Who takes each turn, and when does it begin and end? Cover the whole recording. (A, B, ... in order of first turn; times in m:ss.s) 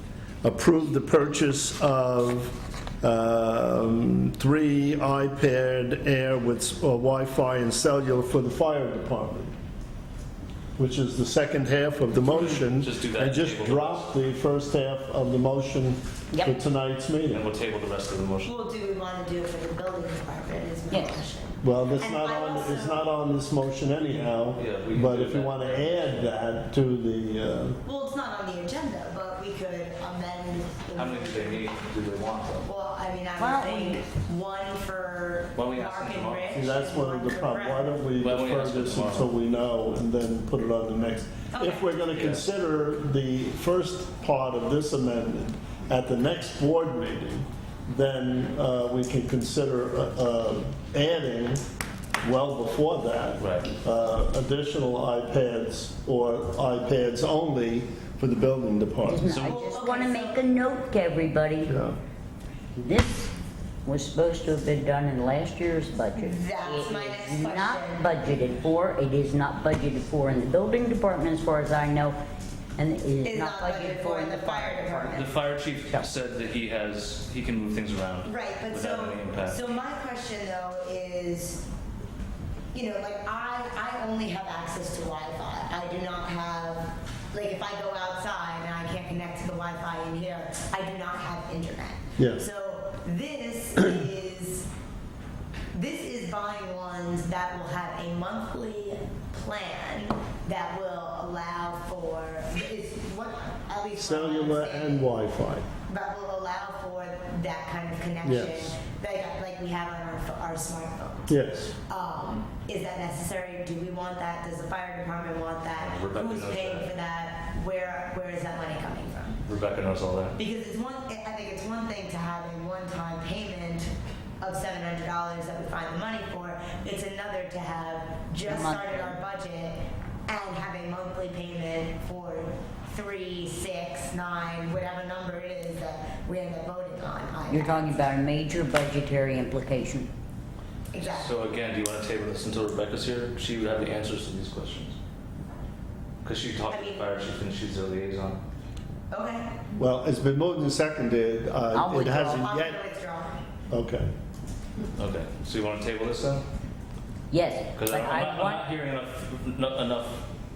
0:00.4-0:09.5 A
0:10.8-0:17.4 A
0:12.5-0:14.1 B
0:17.3-0:18.6 B
0:18.4-0:23.1 C
0:20.9-0:21.2 D
0:21.6-0:27.8 A
0:24.2-0:26.3 B
0:27.8-0:31.6 C
0:30.9-0:32.7 B
0:32.6-0:38.0 C
0:33.4-0:34.0 D
0:35.5-0:36.6 B
0:36.5-0:51.6 A
0:38.2-0:39.3 B
0:41.5-0:41.9 C
0:42.1-0:42.4 B
0:52.2-0:59.4 A
0:53.4-0:53.7 B
0:59.0-1:01.7 D
0:59.2-0:59.6 B
0:59.4-1:00.5 C
1:01.6-1:02.0 A
1:02.8-1:03.3 D
1:03.8-1:12.2 D
1:06.1-1:08.1 C
1:12.8-1:15.3 D
1:13.2-1:15.3 C
1:15.1-1:19.6 B
1:18.2-1:21.6 C
1:22.7-1:34.7 C
1:35.7-1:45.1 C
1:44.0-1:45.7 A
1:45.9-1:51.3 C
1:48.2-1:48.7 A
1:51.3-1:51.7 A
1:51.9-1:59.4 C
1:55.8-1:56.9 B
1:59.4-2:00.4 B
2:00.4-2:18.1 C
2:08.4-2:09.2 D
2:17.5-2:20.1 D
2:20.9-2:21.3 C
2:21.0-2:25.0 B
2:26.2-2:28.4 B
2:26.7-2:27.0 C
2:29.1-2:29.6 C
2:29.8-2:32.8 A
2:31.7-2:32.5 D
2:32.2-2:33.4 C
2:33.7-2:34.1 A
2:35.0-2:36.4 B
2:37.3-2:38.6 D
2:37.8-2:40.3 B